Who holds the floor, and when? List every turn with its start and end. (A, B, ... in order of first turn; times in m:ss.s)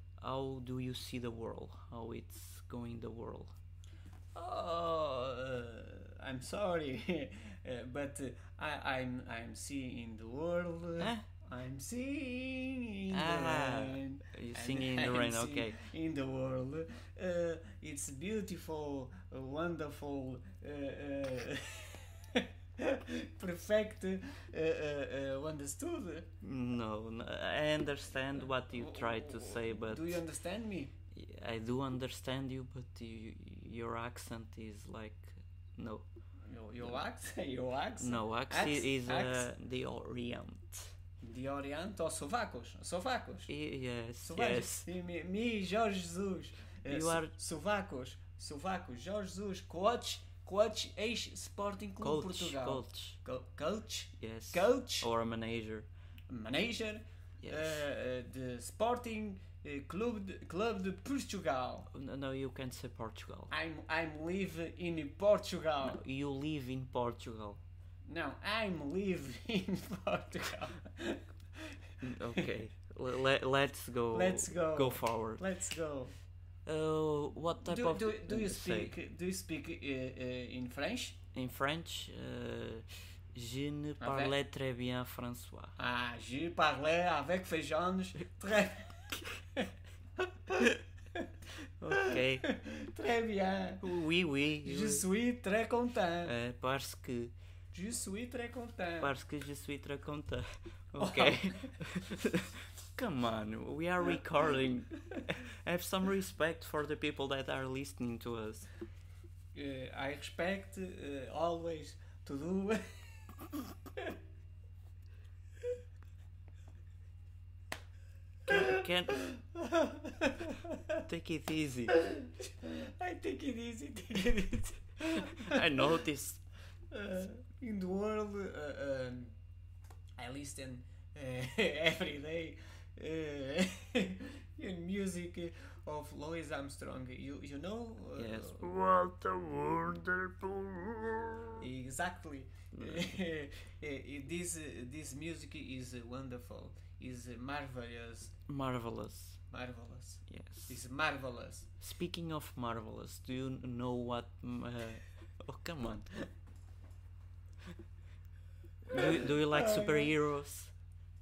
0:00.2-0:03.5 A
0:04.3-0:26.3 B
0:11.0-0:11.2 A
0:13.1-0:15.8 A
0:26.4-0:30.2 A
0:28.6-0:30.9 B
0:31.1-0:36.0 A
0:36.5-0:39.5 B
0:38.0-0:40.9 A
0:41.2-0:43.5 B
0:43.5-0:44.9 A
0:44.2-0:55.1 B
0:46.9-0:47.3 A
0:52.0-0:53.2 A
0:54.2-0:55.9 A
0:56.3-1:01.9 B
0:57.4-0:57.8 A
1:01.9-1:03.5 A
1:03.5-1:06.0 B
1:05.8-1:07.6 A
1:08.0-1:11.6 B
1:12.0-1:15.4 A
1:14.1-1:16.2 B
1:16.6-1:18.9 A
1:17.6-1:21.2 B
1:21.3-1:25.8 A
1:24.0-1:24.3 B
1:25.8-1:29.7 B
1:30.5-1:31.3 B
1:31.8-1:32.5 A
1:31.9-1:33.8 B
1:33.8-1:35.0 A
1:34.6-1:36.3 B
1:36.2-1:37.3 A
1:37.7-1:39.1 B
1:39.0-1:48.7 A
1:41.0-1:41.7 B
1:49.5-1:53.3 B
1:58.5-1:59.2 A
1:58.5-2:00.8 B
2:00.9-2:02.0 A
2:01.9-2:05.9 B
2:05.1-2:06.4 A
2:06.9-2:09.4 B
2:10.2-2:18.7 B
2:18.2-2:21.7 A
2:21.6-2:28.3 B
2:22.7-2:23.0 A
2:28.5-2:29.4 A
2:29.5-2:31.7 B
2:30.3-2:30.8 A
2:31.8-2:36.1 A
2:38.8-2:40.7 A
2:38.9-2:40.1 B